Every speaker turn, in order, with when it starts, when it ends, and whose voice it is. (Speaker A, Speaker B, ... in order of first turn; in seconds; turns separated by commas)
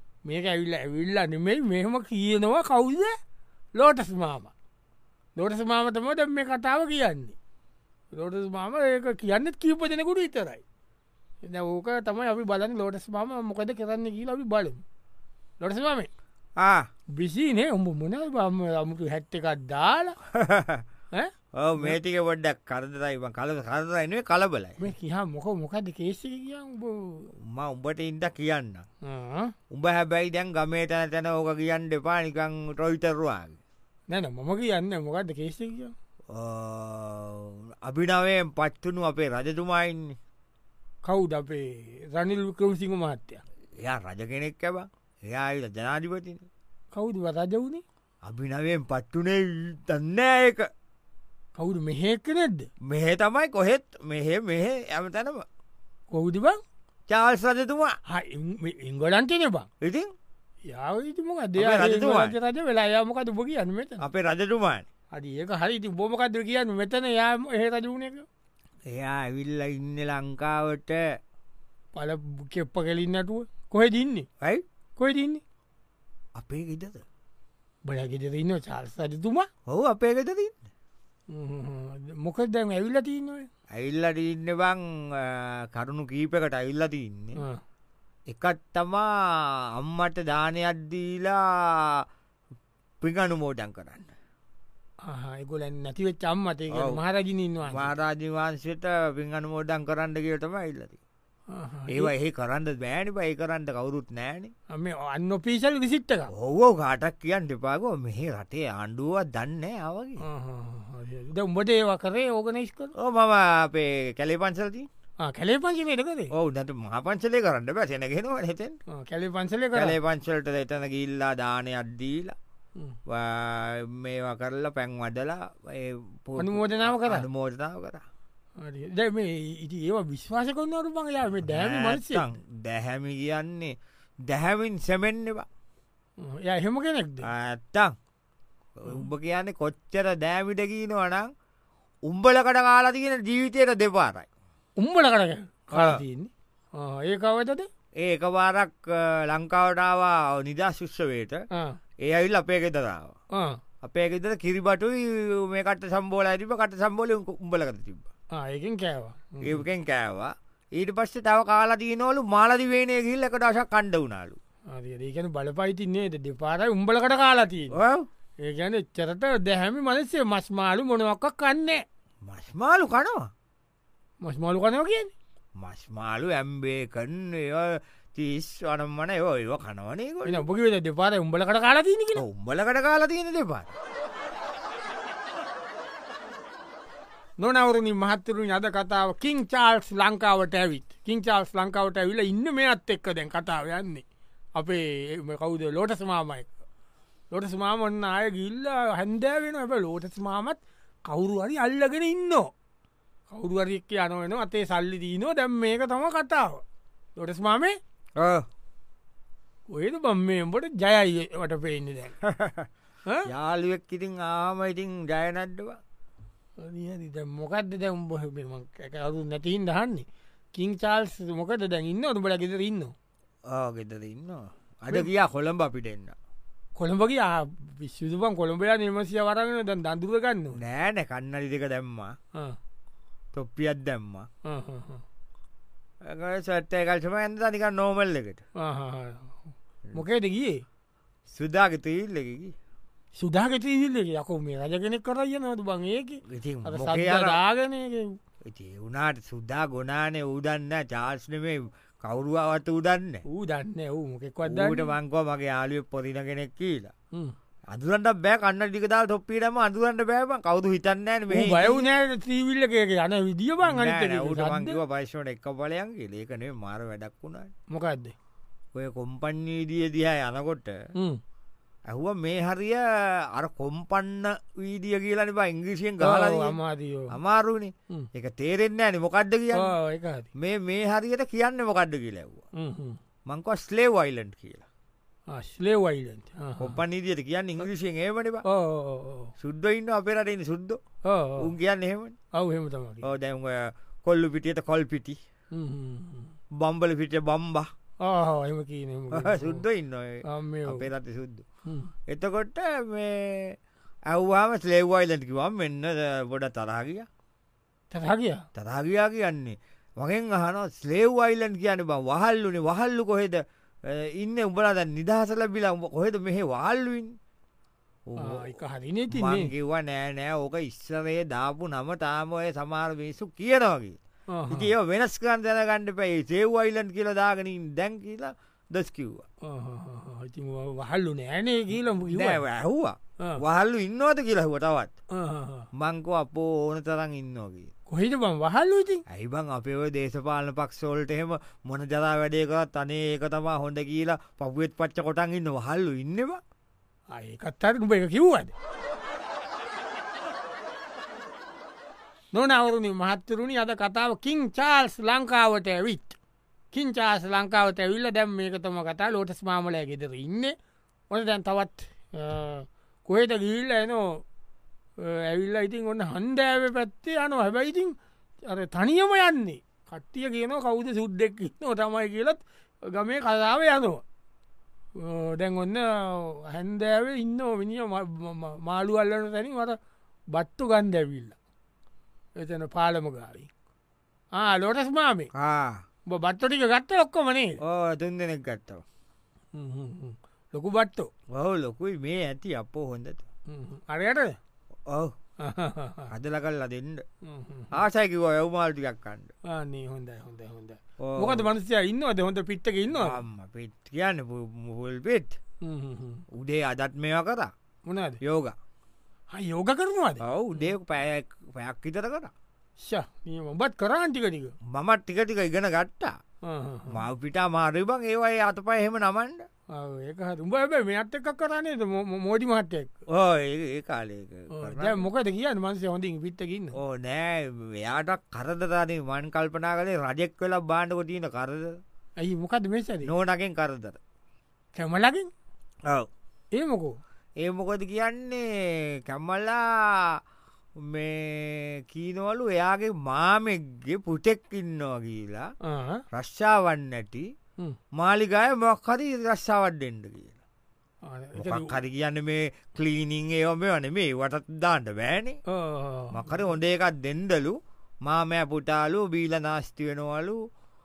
Speaker A: 0.2-3.1, Speaker A: 3.8-4.5, Speaker A: 5.4-7.4, Speaker A: 8.1-10.6, Speaker A: 11.4-14.8, Speaker A: 15.6-16.1, Speaker B: 16.6-16.9, Speaker A: 17.2-20.2, Speaker B: 20.3-20.8, Speaker A: 21.1-22.0, Speaker B: 21.6-24.8, Speaker A: 24.8-27.3, Speaker B: 27.5-28.9, Speaker A: 29.1-29.5, Speaker B: 29.7-33.6, Speaker A: 34.1-35.9, Speaker B: 36.3-40.2, Speaker A: 41.0-43.4, Speaker B: 43.8-46.5, Speaker A: 46.9-47.8, Speaker B: 48.2-50.7, Speaker A: 51.6-52.7, Speaker B: 52.8-55.5, Speaker A: 56.1-56.6, Speaker B: 57.1-58.0, Speaker A: 58.1-59.7, Speaker B: 59.8-60.1, Speaker A: 60.7-64.0, Speaker B: 61.6-62.4, Speaker B: 64.0-64.8, Speaker A: 65.1-68.2, Speaker B: 68.9-71.2, Speaker A: 71.9-74.3, Speaker A: 75.0-75.4, Speaker B: 76.4-77.0, Speaker A: 77.8-79.5, Speaker B: 79.7-80.6, Speaker A: 81.3-83.5, Speaker B: 83.7-87.4, Speaker A: 87.4-87.6, Speaker B: 88.3-92.0, Speaker B: 93.0-94.1, Speaker A: 95.0-97.9, Speaker B: 96.7-97.0, Speaker B: 97.7-101.0, Speaker A: 101.5-102.1, Speaker B: 101.9-104.5, Speaker A: 104.7-106.3, Speaker B: 106.3-110.2, Speaker A: 110.2-112.9, Speaker B: 113.0-114.9, Speaker A: 115.2-116.3, Speaker B: 116.3-118.8, Speaker A: 118.9-120.0, Speaker B: 119.8-122.4, Speaker B: 123.1-128.0, Speaker A: 126.4-127.3, Speaker A: 128.6-132.2, Speaker B: 131.4-133.8, Speaker B: 134.3-135.5, Speaker A: 136.2-137.3, Speaker B: 137.2-137.9, Speaker B: 138.8-141.3, Speaker B: 142.1-144.3, Speaker A: 144.8-147.7, Speaker B: 145.7-146.0, Speaker B: 148.0-151.5, Speaker B: 152.0-153.2, Speaker B: 153.8-158.1, Speaker A: 158.3-159.6, Speaker B: 159.4-164.4, Speaker A: 164.7-167.8, Speaker B: 167.7-168.1, Speaker A: 168.4-171.8, Speaker B: 172.3-173.3, Speaker A: 174.2-175.1, Speaker B: 175.6-180.4, Speaker A: 180.2-182.2, Speaker B: 182.2-183.7, Speaker A: 187.4-196.5, Speaker A: 197.3-202.5, Speaker A: 203.3-206.6, Speaker A: 207.2-207.8, Speaker B: 208.2-208.5, Speaker A: 209.7-212.2, Speaker B: 212.2-212.7, Speaker B: 213.3-215.8, Speaker A: 216.6-222.9, Speaker B: 223.5-226.2, Speaker A: 226.8-230.6, Speaker B: 230.6-232.2, Speaker B: 233.3-234.3, Speaker A: 234.4-235.0, Speaker B: 236.0-238.4, Speaker A: 238.6-239.4, Speaker A: 239.9-240.6, Speaker B: 241.3-242.6, Speaker A: 243.2-248.2, Speaker B: 246.3-247.4, Speaker B: 248.4-253.2, Speaker A: 253.3-254.9, Speaker B: 254.5-256.9, Speaker B: 257.7-261.9, Speaker A: 261.3-264.8, Speaker B: 263.6-267.5, Speaker A: 267.7-268.1, Speaker B: 268.8-270.8, Speaker B: 271.9-276.6, Speaker A: 276.0-277.1, Speaker B: 277.1-279.7, Speaker A: 279.5-280.3, Speaker B: 280.4-282.4, Speaker A: 282.6-283.0, Speaker B: 283.3-284.6, Speaker A: 285.3-286.8, Speaker B: 286.6-288.4, Speaker A: 288.4-289.3, Speaker B: 289.4-290.8, Speaker A: 291.1-291.5, Speaker B: 291.4-292.2, Speaker A: 292.3-293.1, Speaker B: 293.0-295.2, Speaker A: 295.5-296.3, Speaker B: 296.6-297.7, Speaker A: 298.0-299.6, Speaker B: 299.1-301.4, Speaker A: 300.3-300.9, Speaker A: 301.7-301.9, Speaker B: 302.1-303.6, Speaker B: 304.1-307.1, Speaker A: 307.9-308.4, Speaker B: 308.6-317.1, Speaker B: 318.1-318.6, Speaker A: 318.2-319.5, Speaker B: 319.1-324.0, Speaker A: 324.3-324.7, Speaker B: 324.5-329.3, Speaker A: 329.4-332.4, Speaker B: 332.1-334.9, Speaker A: 335.2-335.7, Speaker B: 335.8-337.7, Speaker A: 337.9-339.0, Speaker B: 339.1-346.4, Speaker A: 347.1-348.5, Speaker A: 352.3-356.2, Speaker A: 356.7-360.6, Speaker A: 361.1-364.2, Speaker A: 365.0-367.9, Speaker A: 368.5-374.0, Speaker A: 375.0-379.8, Speaker A: 380.3-381.4, Speaker A: 382.4-383.5, Speaker A: 384.4-385.3, Speaker B: 385.4-385.8, Speaker A: 386.1-387.6, Speaker B: 387.6-388.8, Speaker A: 389.5-391.1, Speaker B: 391.3-393.2, Speaker A: 393.5-394.4, Speaker B: 394.9-395.1, Speaker A: 395.4-396.1, Speaker B: 396.1-397.0, Speaker A: 397.2-397.8, Speaker B: 397.7-399.3, Speaker A: 399.5-403.2, Speaker B: 401.0-401.5, Speaker B: 402.9-405.4, Speaker A: 405.6-406.2, Speaker B: 406.3-407.5, Speaker A: 407.9-408.2, Speaker B: 408.2-408.6, Speaker A: 409.3-410.7, Speaker B: 410.2-412.3, Speaker A: 412.8-414.6, Speaker B: 414.7-416.2, Speaker A: 416.4-417.0, Speaker B: 416.9-419.5, Speaker A: 419.7-422.9, Speaker B: 423.1-425.1, Speaker A: 424.5-426.8, Speaker B: 426.8-431.8, Speaker A: 432.2-433.1, Speaker B: 433.0-434.0, Speaker A: 434.8-435.3, Speaker A: 436.5-437.0, Speaker B: 437.4-440.2, Speaker B: 440.8-445.5, Speaker A: 445.6-446.0, Speaker B: 446.1-447.3, Speaker B: 447.9-450.4, Speaker A: 451.1-451.8, Speaker B: 451.4-455.4, Speaker A: 455.5-456.4, Speaker B: 456.1-460.4